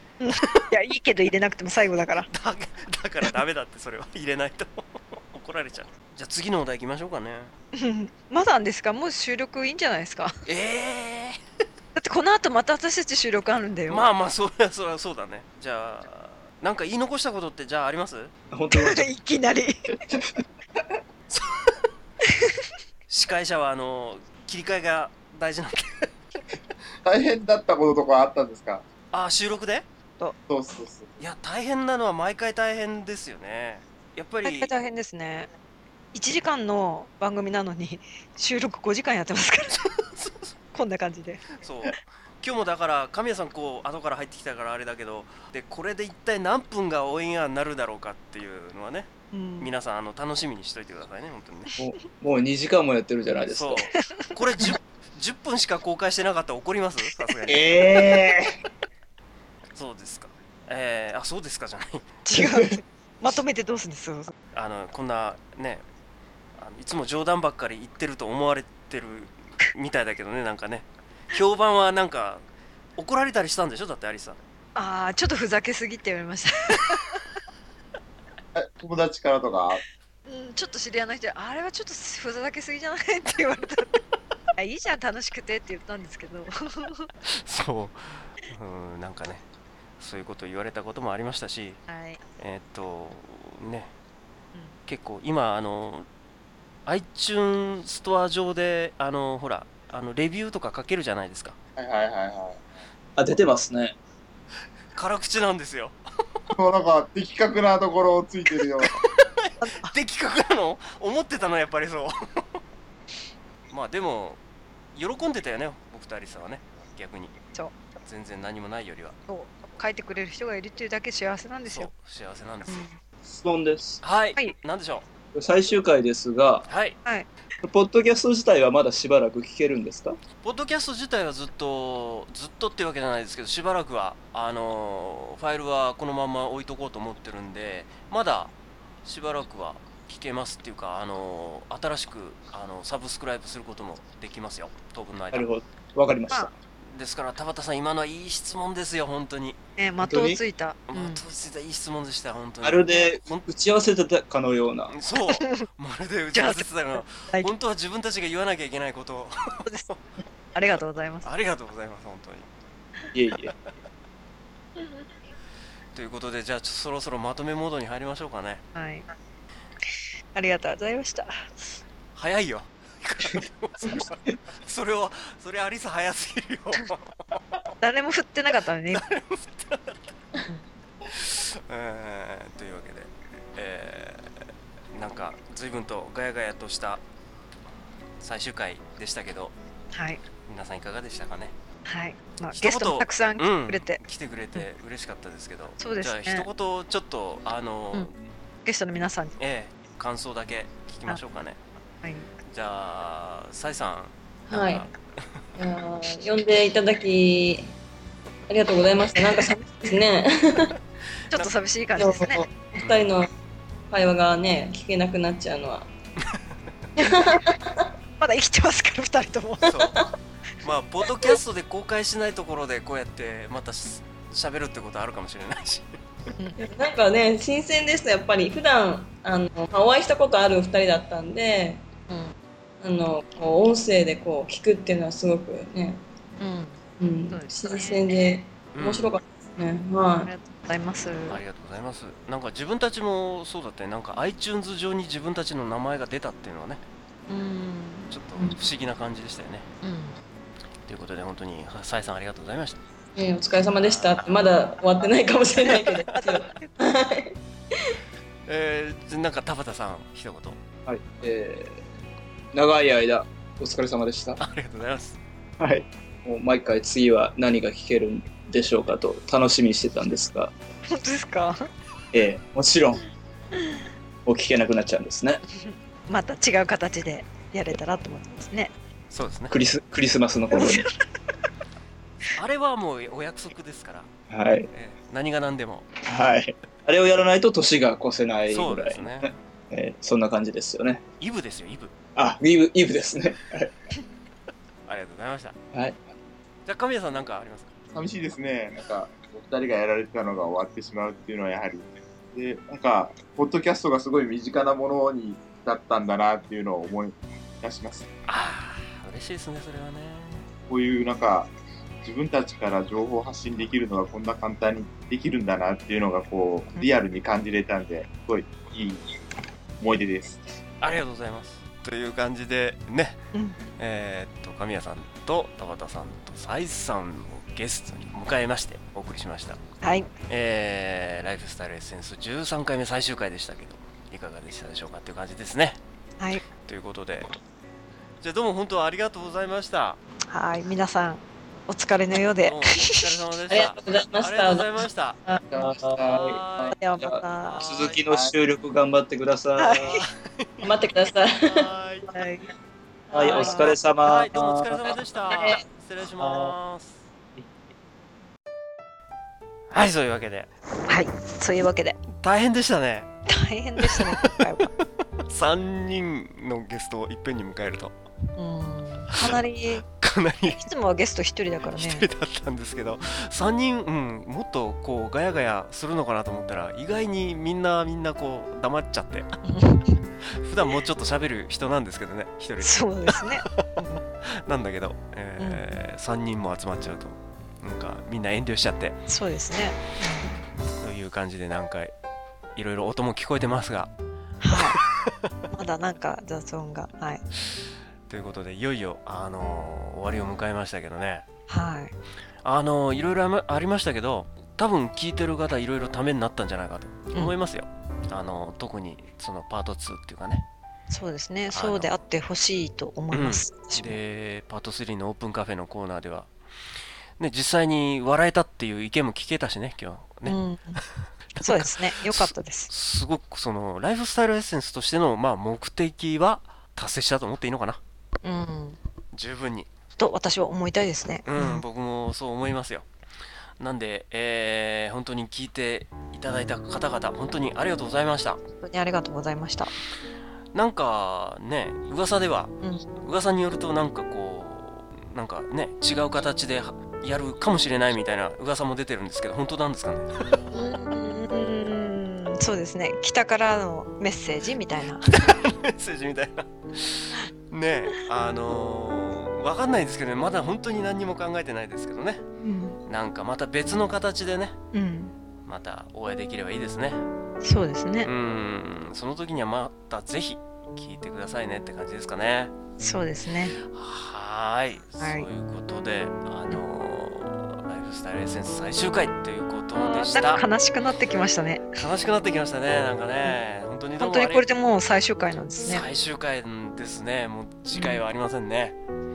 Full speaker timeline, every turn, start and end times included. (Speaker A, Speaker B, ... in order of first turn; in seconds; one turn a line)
Speaker A: 0.2-2.3
Speaker B: 2.3-7.5
Speaker A: 7.8-10.4
Speaker B: 10.5-11.4
Speaker A: 11.9-14.1
Speaker B: 13.9-18.3
Speaker C: 18.5-19.1
Speaker A: 18.7-19.9
Speaker B: 21.3-21.6
Speaker A: 22.3-22.7
Speaker B: 23.1-26.1
Speaker D: 27.1-28.8
Speaker B: 29.1-29.9
Speaker D: 30.5-31.2
Speaker B: 31.2-34.7
Speaker A: 34.4-35.5
Speaker A: 36.1-40.0
Speaker B: 39.8-40.5
Speaker A: 40.7-41.6
Speaker B: 41.6-51.7
Speaker A: 49.3-49.7
Speaker C: 51.8-53.9
Speaker B: 53.5-58.0
Speaker A: 54.1-54.7
Speaker C: 57.5-58.5
Speaker B: 59.8-62.0
Speaker A: 62.2-64.3
Speaker C: 62.4-62.7
Speaker B: 64.5-65.8
Speaker B: 66.6-72.4
Speaker B: 73.0-74.4
Speaker A: 74.8-77.2
Speaker D: 78.5-79.8
Speaker A: 80.3-84.0
Speaker A: 84.6-87.1
Speaker B: 87.3-89.4
Speaker B: 90.0-91.8
Speaker A: 91.9-92.2
Speaker B: 92.4-93.9
Speaker B: 94.9-96.1
Speaker B: 96.9-101.6
Speaker D: 101.8-102.6
Speaker C: 103.2-104.0
Speaker B: 104.9-106.0
Speaker D: 106.5-109.0
Speaker B: 108.8-112.6
Speaker A: 109.6-109.9
Speaker B: 113.7-114.4
Speaker B: 114.9-117.3
Speaker B: 118.0-119.2
Speaker A: 119.3-121.9
Speaker B: 121.7-122.8
Speaker A: 122.7-123.0
Speaker C: 123.3-124.0
Speaker B: 124.0-125.1
Speaker C: 125.3-126.7
Speaker B: 126.7-127.0
Speaker C: 127.6-130.2
Speaker B: 130.4-138.5
Speaker B: 139.0-145.5
Speaker C: 145.3-146.5
Speaker B: 146.8-149.6
Speaker A: 149.8-151.2
Speaker C: 150.0-150.4
Speaker B: 150.9-153.5
Speaker C: 152.6-154.9
Speaker B: 154.9-159.6
Speaker A: 155.3-155.7
Speaker A: 156.3-157.5
Speaker A: 159.6-159.9
Speaker A: 160.6-161.3
Speaker B: 161.2-162.5
Speaker C: 163.2-163.5
Speaker A: 164.8-165.1
Speaker B: 165.9-168.6
Speaker A: 168.8-169.1
Speaker A: 170.3-171.8
Speaker B: 172.2-177.1
Speaker C: 173.3-174.3
Speaker A: 177.8-179.1
Speaker B: 178.9-180.1
Speaker B: 181.1-187.0
Speaker B: 188.2-189.6
Speaker A: 189.9-190.2
Speaker B: 190.4-191.6
Speaker A: 191.9-194.0
Speaker B: 192.5-198.1
Speaker A: 195.8-196.5
Speaker A: 198.7-199.4
Speaker B: 199.4-201.6
Speaker A: 202.0-202.3
Speaker B: 202.5-204.9
Speaker E: 204.5-204.9
Speaker E: 205.6-207.7
Speaker E: 208.5-210.7
Speaker A: 211.3-212.8
Speaker E: 212.0-213.3
Speaker E: 213.9-215.9
Speaker E: 217.0-217.9
Speaker A: 218.2-219.9
Speaker B: 219.6-219.9
Speaker E: 219.7-220.1
Speaker B: 220.6-226.0
Speaker E: 226.6-231.8
Speaker A: 232.1-232.3
Speaker E: 232.8-236.0
Speaker A: 236.4-236.8
Speaker E: 237.0-240.3
Speaker A: 237.3-238.1
Speaker B: 238.8-239.1
Speaker A: 240.2-241.4
Speaker B: 241.3-246.8
Speaker A: 247.3-248.6
Speaker B: 248.1-249.7
Speaker A: 249.8-250.2
Speaker B: 250.9-252.8
Speaker E: 253.2-258.0
Speaker B: 253.8-254.3
Speaker A: 255.6-256.7
Speaker B: 255.9-256.3
Speaker B: 258.5-260.6
Speaker C: 260.9-261.8
Speaker C: 262.5-264.4
Speaker B: 264.4-265.2
Speaker C: 265.6-270.5
Speaker A: 270.9-271.6
Speaker C: 272.1-273.0
Speaker C: 274.3-275.4
Speaker A: 275.6-278.7
Speaker B: 279.1-279.6
Speaker C: 279.5-280.9
Speaker A: 280.5-281.0
Speaker B: 282.4-284.1
Speaker C: 284.3-284.7
Speaker B: 284.7-285.9
Speaker C: 286.1-291.0
Speaker B: 288.5-289.3
Speaker B: 291.2-291.9
Speaker C: 292.2-293.7
Speaker B: 294.9-295.6
Speaker C: 295.7-296.1
Speaker B: 296.7-297.7
Speaker D: 297.9-308.1
Speaker B: 308.3-310.5
Speaker D: 310.7-311.5
Speaker D: 312.0-319.1
Speaker D: 319.8-320.4
Speaker B: 320.8-323.2
Speaker B: 323.8-329.6
Speaker A: 329.8-330.1
Speaker B: 330.3-335.8
Speaker A: 336.2-336.5
Speaker B: 336.6-337.3
Speaker B: 338.2-340.0
Speaker A: 340.3-343.2
Speaker B: 342.4-345.2
Speaker E: 343.5-344.7
Speaker C: 345.5-346.4
Speaker B: 346.0-346.8
Speaker A: 346.7-347.6
Speaker C: 347.0-349.9
Speaker B: 347.4-348.0
Speaker A: 349.6-350.1
Speaker B: 349.9-350.7
Speaker E: 350.6-351.7
Speaker B: 351.5-352.1
Speaker A: 352.1-352.5
Speaker E: 353.1-353.7
Speaker C: 353.1-354.8
Speaker A: 353.2-353.8
Speaker B: 354.0-357.1
Speaker B: 359.7-360.5
Speaker A: 360.9-362.0
Speaker B: 362.1-363.1
Speaker A: 363.3-364.7
Speaker B: 363.8-364.3
Speaker B: 365.2-368.0
Speaker A: 368.4-369.9
Speaker B: 369.2-370.6
Speaker A: 370.5-372.1
Speaker B: 371.7-379.3
Speaker A: 379.5-380.0
Speaker B: 380.3-383.7
Speaker A: 382.6-384.0
Speaker B: 384.2-389.0
Speaker A: 385.4-385.7
Speaker A: 389.1-390.3
Speaker B: 390.8-391.9
Speaker B: 392.6-393.9
Speaker A: 394.4-394.8
Speaker B: 394.5-395.3
Speaker A: 395.5-397.2
Speaker B: 398.1-401.2
Speaker A: 401.5-401.9
Speaker B: 402.4-410.5
Speaker A: 410.9-414.0
Speaker B: 411.5-411.9
Speaker B: 413.1-416.3
Speaker B: 417.2-420.4
Speaker A: 420.2-420.8
Speaker B: 421.4-427.8
Speaker A: 421.4-422.7
Speaker A: 428.2-428.8
Speaker B: 429.1-429.7
Speaker A: 430.0-431.6
Speaker B: 431.3-432.9
Speaker B: 433.6-438.4
Speaker A: 438.6-439.7
Speaker B: 440.5-450.4
Speaker A: 442.6-442.9
Speaker A: 450.5-455.2
Speaker B: 455.2-462.2
Speaker A: 462.4-462.8
Speaker B: 462.9-464.6
Speaker A: 464.7-465.1
Speaker B: 465.5-467.0
Speaker A: 467.4-468.1
Speaker B: 468.0-472.5
Speaker A: 472.8-473.6
Speaker B: 473.6-480.4
Speaker A: 475.0-475.3
Speaker A: 479.7-481.9
Speaker B: 481.8-484.4
Speaker A: 484.0-485.9
Speaker B: 485.6-488.8
Speaker A: 487.7-488.0